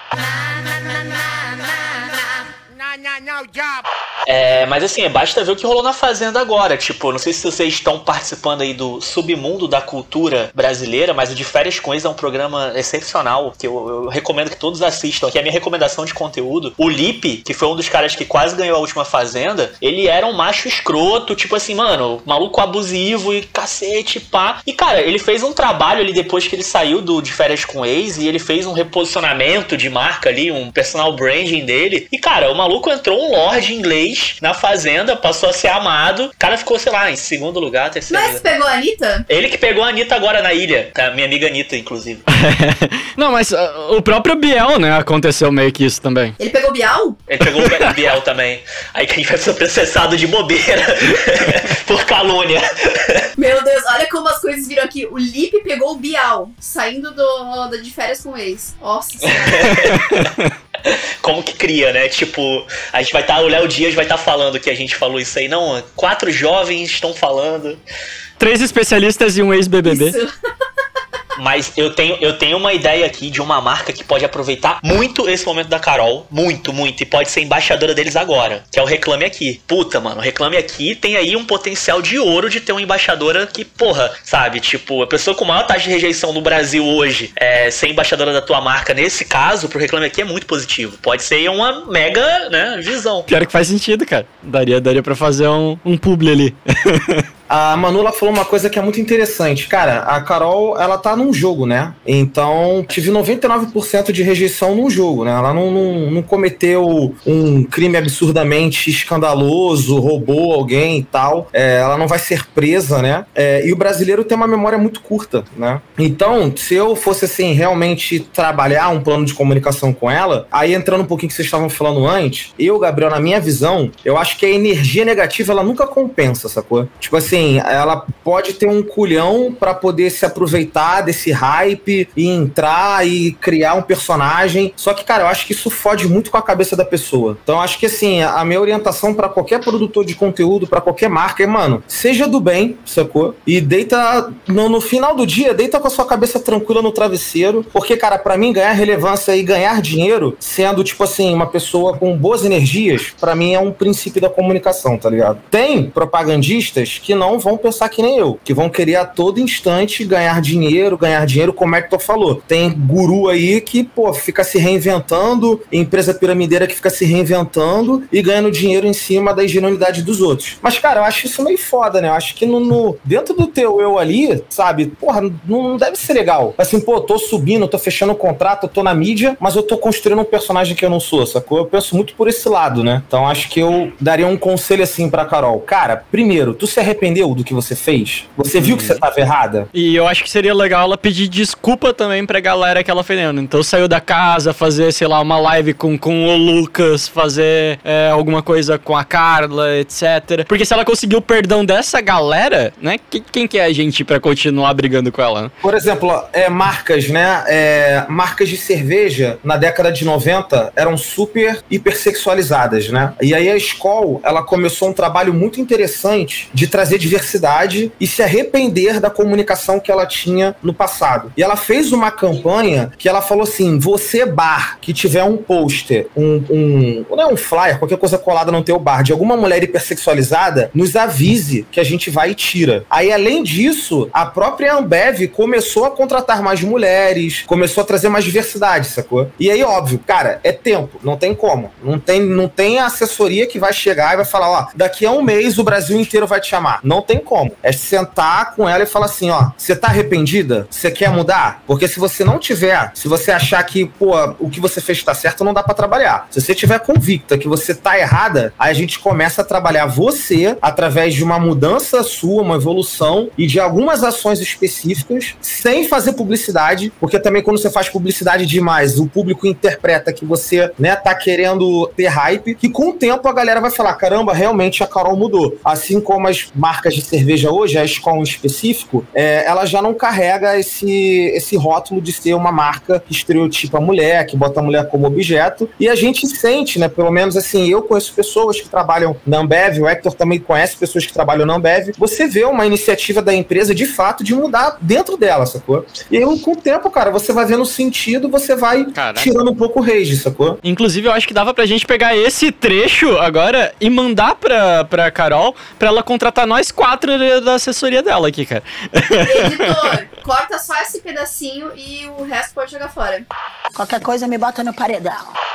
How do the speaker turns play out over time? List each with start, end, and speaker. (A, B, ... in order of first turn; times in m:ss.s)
0:00.2-0:03.8 A
0:04.3-0:38.4 B
0:38.1-0:39.2 C
0:39.3-0:42.2 B
0:42.3-0:46.4 D
0:46.4-0:47.2 C
0:47.3-0:53.3 B
0:47.6-0:47.9 D
0:53.4-0:59.8 C
0:59.3-1:00.3 B
0:59.7-1:00.5 D
1:00.8-1:07.8 B
1:08.4-1:10.1 D
1:09.8-1:10.3 C
1:11.4-1:33.3 B
1:33.3-1:37.2 D
1:37.5-3:09.7 E
3:08.6-3:09.0 D
3:09.7-3:25.5 D
3:25.6-5:00.6 E
4:58.9-4:59.3 D
5:00.6-5:09.7 D
5:09.2-5:13.2 C
5:13.8-5:15.3 A